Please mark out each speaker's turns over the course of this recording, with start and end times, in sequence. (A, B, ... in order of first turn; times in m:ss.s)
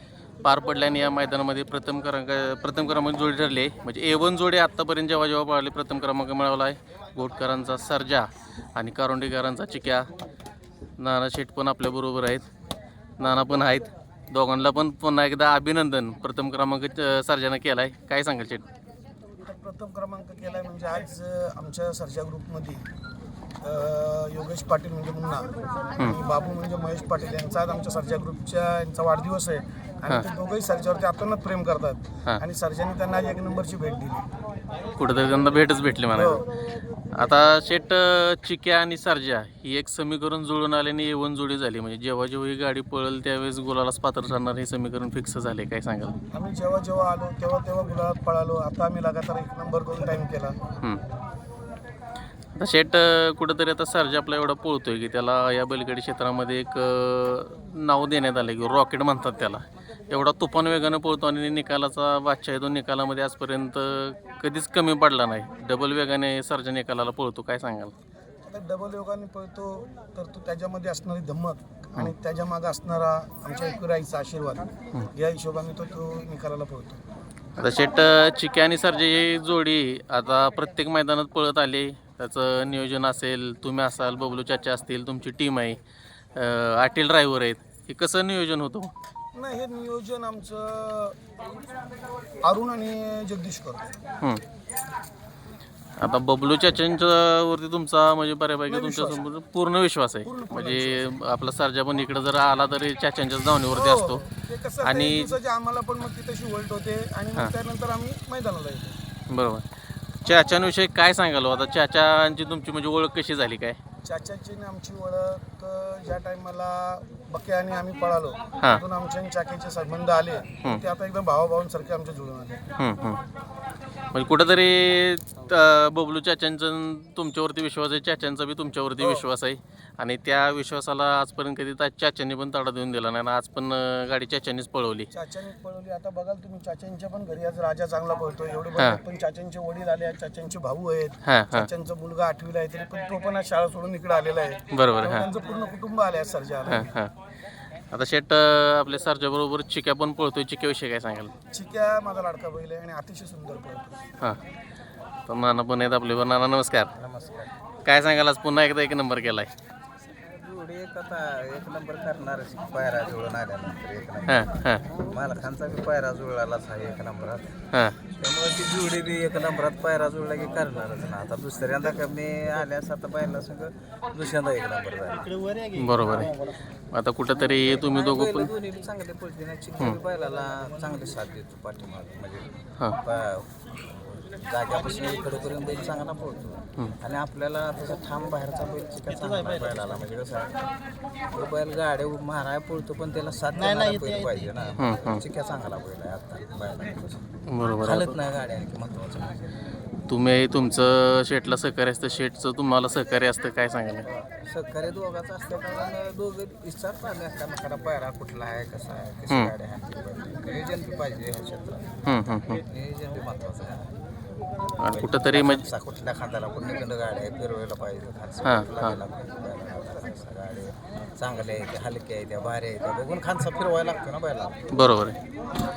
0:00.4-0:10.1 A
0:11.0-0:12.4 A
0:13.2-0:18.6 A
0:19.4-0:22.8 B
0:23.6-0:34.3 B
0:35.0-0:36.4 A
0:36.1-0:36.4 B
0:37.1-0:46.2 A
0:46.3-0:50.6 B
0:52.5-1:07.9 A
1:08.4-1:17.0 B
1:17.6-1:25.8 A
1:26.3-1:28.9 A
1:29.3-1:31.2 B
1:32.4-1:33.9 B
1:36.0-1:44.2 A
1:38.7-1:39.2 B
1:40.2-1:41.1 B
1:43.7-1:49.0 B
1:44.8-1:45.4 A
1:49.3-1:49.7 A
1:50.2-1:53.8 A
1:54.0-2:02.6 B
2:02.8-2:03.2 A
2:04.1-2:15.1 A
2:15.1-2:26.9 B
2:21.2-2:21.7 A
2:24.7-2:25.3 A
2:26.7-2:27.1 A
2:27.9-2:31.3 A
2:31.5-2:34.0 B
2:35.3-2:36.9 A
2:36.9-2:37.5 C
2:37.8-2:39.5 A
2:40.1-2:47.6 C
2:44.3-2:44.9 A
2:48.1-2:55.4 C
2:55.7-2:58.5 A
2:57.8-3:10.6 C
3:11.3-3:17.3 C
3:14.8-3:15.2 A
3:17.5-3:18.2 A
3:17.8-3:19.5 C
3:20.1-3:24.0 A
3:24.1-3:32.0 C
3:32.0-3:32.6 A
3:32.7-3:33.9 C
3:34.8-3:35.6 A
3:34.9-3:44.6 C
3:38.4-3:39.0 A
3:44.7-3:45.2 A